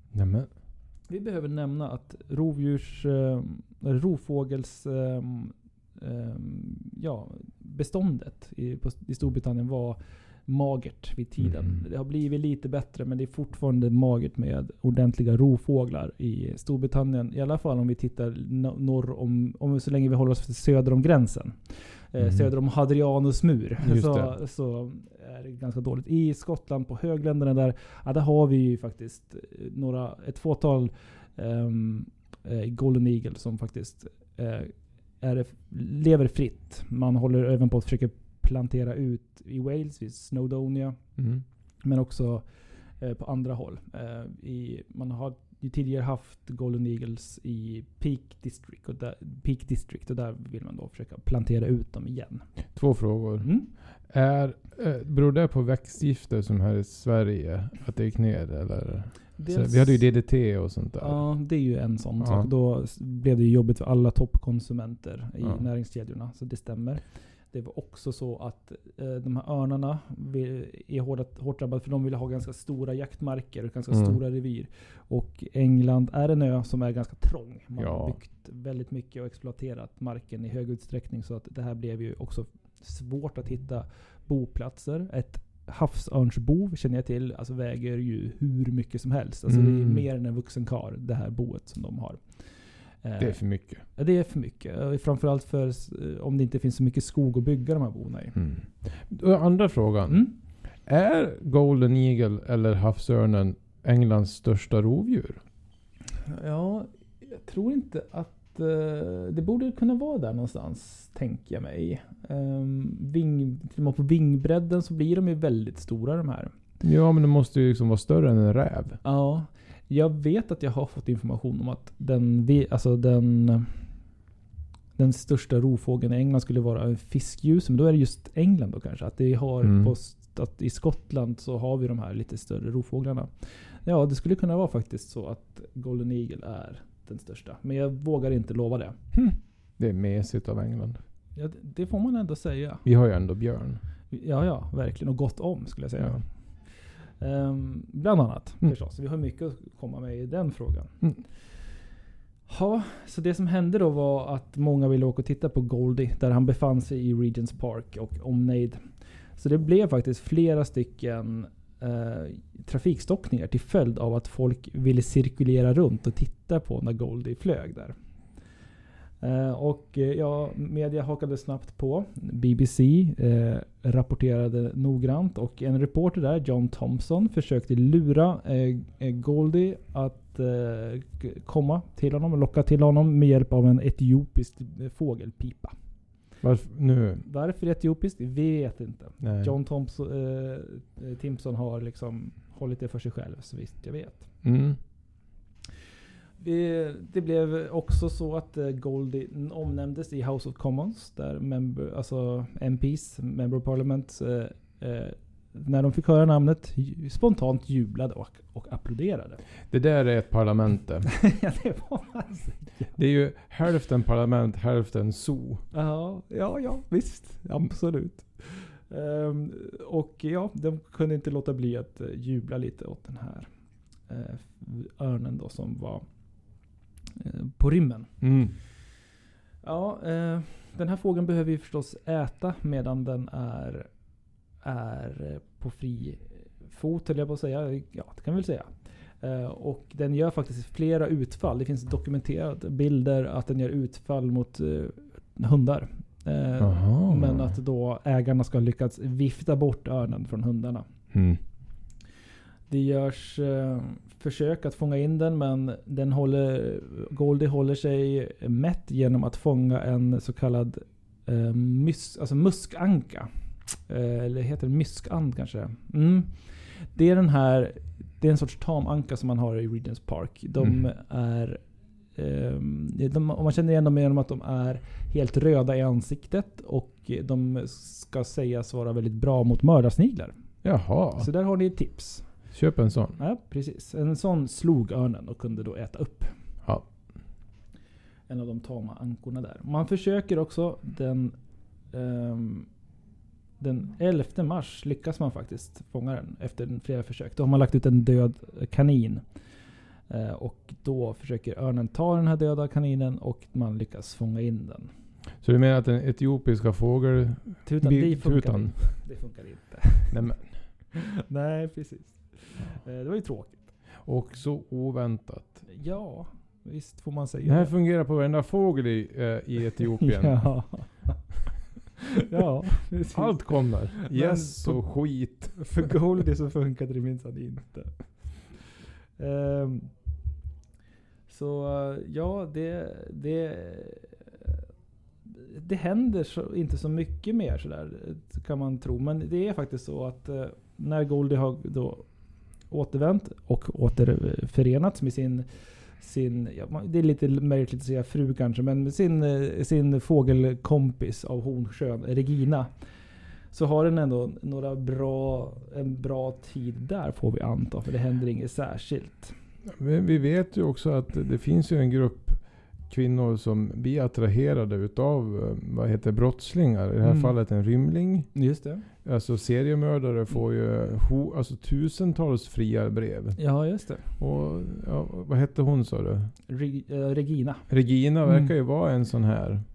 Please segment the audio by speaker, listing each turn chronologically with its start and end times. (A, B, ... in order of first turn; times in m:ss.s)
0:00.1-0:00.5 A
0:01.1-0:41.2 B
0:11.4-0:11.8 A
0:22.2-0:22.5 A
0:23.8-0:24.3 A
0:41.2-0:41.4 A
0:41.8-0:52.8 B
0:52.7-1:01.3 A
0:53.4-0:53.7 B
0:59.4-1:38.4 B
1:02.2-1:02.5 A
1:13.9-1:14.2 A
1:17.8-1:18.2 A
1:29.5-1:30.0 A
1:33.2-1:33.8 A
1:38.3-1:45.4 A
1:46.2-1:56.5 B
1:56.8-1:59.0 A
1:59.0-2:04.0 B
2:05.0-2:19.0 B
2:09.6-2:09.9 A
2:19.1-2:21.0 A
2:21.3-2:22.8 B
2:22.8-2:23.8 A
2:24.1-2:31.6 B
2:32.5-2:48.0 B
2:49.2-3:05.7 B
3:06.4-3:07.2 A
3:07.2-3:14.4 B
3:09.2-3:09.5 A
3:14.4-3:14.8 A
3:16.4-3:29.4 B
3:29.7-3:31.1 A
3:31.2-3:33.0 B
3:33.0-3:35.6 A
3:35.7-3:43.5 B
3:44.0-3:48.8 B
3:48.2-3:48.5 A
3:49.6-3:53.9 B
3:54.6-4:10.9 B
4:06.6-4:07.6 A
4:11.1-4:11.4 A
4:12.7-4:42.5 B
4:40.6-4:41.3 A
4:42.5-4:43.2 A
4:43.2-4:46.4 B
4:46.6-4:46.9 A
4:48.3-4:52.7 B
4:53.6-5:04.9 B
5:05.4-5:09.0 A
5:07.6-5:13.7 B
5:10.1-5:10.6 A
5:14.0-5:15.7 A
5:15.7-5:17.7 B
5:17.4-5:20.7 A
5:20.0-5:29.9 B
5:23.1-5:25.9 A
5:31.3-5:34.6 B
5:35.2-5:59.3 B
5:59.6-6:16.3 A
6:07.0-6:07.3 B
6:08.3-6:08.8 B
6:13.4-6:14.1 B
6:16.5-6:18.5 B
6:17.7-6:19.6 A